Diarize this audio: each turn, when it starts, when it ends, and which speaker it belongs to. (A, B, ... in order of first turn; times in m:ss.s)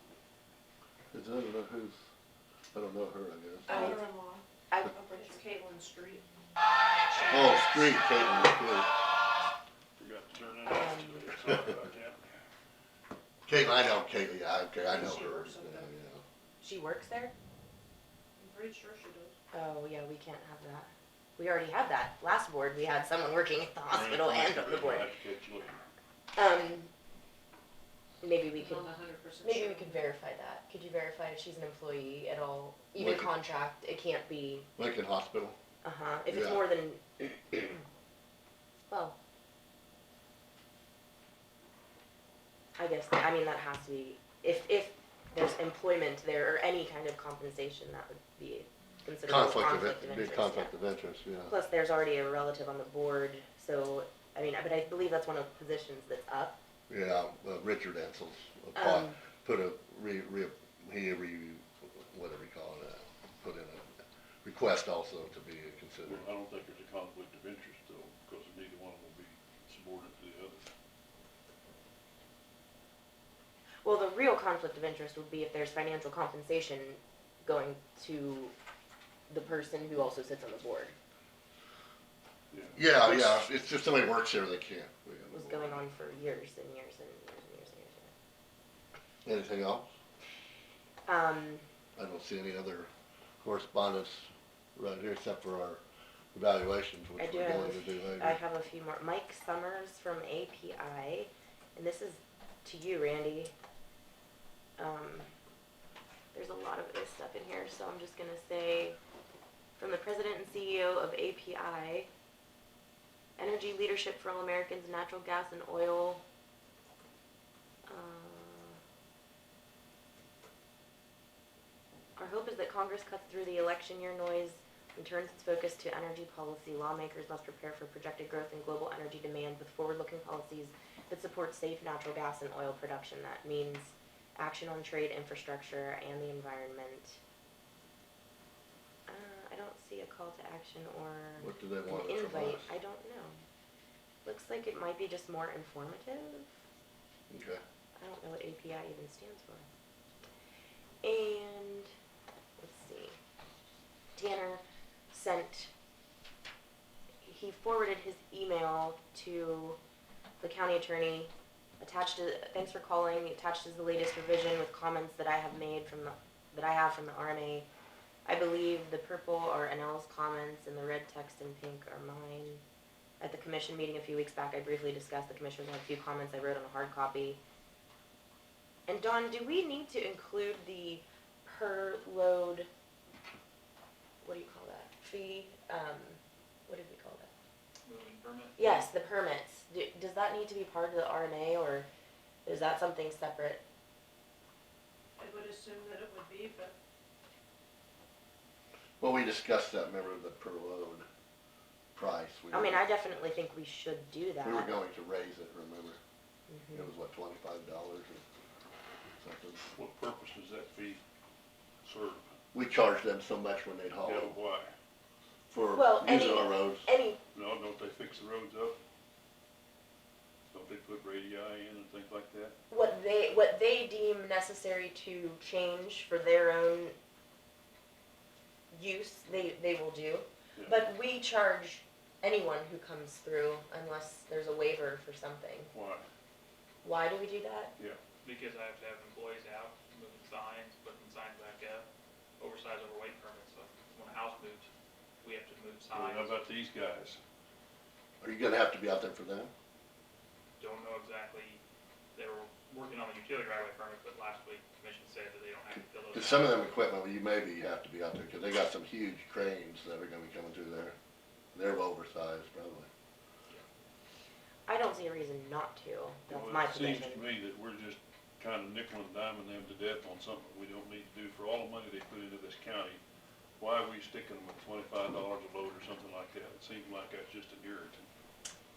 0:01.1-0:02.0 A
0:02.7-0:04.0 A
0:03.7-0:06.2 B
0:03.7-0:04.0 C
0:04.7-0:05.4 C
0:07.2-0:08.9 A
0:10.0-0:12.2 D
0:10.6-0:11.3 C
0:13.4-0:16.2 A
0:14.8-0:15.9 B
0:16.6-0:17.3 C
0:18.4-0:19.3 B
0:19.5-0:25.1 C
0:23.9-0:25.8 D
0:26.3-0:26.9 C
0:28.2-0:34.7 C
0:28.6-0:30.1 B
0:33.0-0:33.3 A
0:34.8-0:35.6 A
0:35.8-0:37.8 C
0:36.3-0:36.6 A
0:38.9-0:39.2 C
0:42.8-0:50.7 C
0:49.2-0:51.5 A
0:51.5-0:56.6 C
0:56.9-1:03.8 A
0:58.7-0:59.2 C
1:04.4-1:06.2 A
1:06.0-1:10.7 D
1:13.8-1:18.5 C
1:19.3-1:20.9 C
1:22.5-1:23.3 D
1:22.7-1:25.8 A
1:25.3-1:28.1 C
1:29.2-1:29.9 A
1:31.0-1:31.6 C
1:32.0-1:32.9 A
1:33.4-1:35.8 A
1:36.3-1:38.4 A
1:37.2-1:43.5 C
1:44.8-1:45.3 C
1:46.3-1:49.0 C
1:49.8-1:52.1 C
1:53.4-1:56.2 C
1:57.9-1:58.8 C
2:02.2-2:17.2 C
2:19.1-2:23.4 C
2:21.4-2:22.7 A
2:24.2-2:26.5 C
2:27.3-2:27.6 A
2:28.0-2:29.6 C
2:31.0-2:31.9 C
2:32.6-2:33.2 C
2:34.2-2:35.7 C
2:37.2-2:39.8 C
2:40.4-2:47.7 C
2:48.2-2:52.6 C
2:53.2-2:57.4 C
2:58.9-3:02.7 C
3:04.2-3:07.3 C
3:07.8-3:08.8 E
3:08.6-3:11.9 C
3:12.4-3:13.6 C
3:15.2-3:16.7 B
3:19.0-3:21.0 A
3:21.9-3:22.8 A
3:22.5-3:24.8 C
3:24.4-3:26.0 A
3:26.5-3:26.9 C
3:26.7-3:28.2 A
3:29.2-3:29.6 A
3:29.7-3:31.0 D
3:31.8-3:32.3 D
3:32.5-3:34.3 A
3:34.0-3:34.7 D
3:35.5-3:36.9 A
3:35.7-3:37.2 C
3:37.3-3:38.8 D
3:40.5-3:42.5 D
3:42.7-3:46.9 C
3:48.7-3:55.7 C
3:55.7-3:56.0 D
3:56.8-3:57.7 C
3:58.2-4:01.8 E
4:02.4-4:04.7 E
4:05.2-4:06.4 E
4:05.9-4:07.2 D
4:08.2-4:09.5 A
4:10.6-4:11.6 E
4:12.1-4:16.6 E
4:16.1-4:21.0 A
4:21.5-4:22.9 A
4:24.7-4:27.3 C
4:26.3-4:33.0 D
4:33.6-4:38.1 D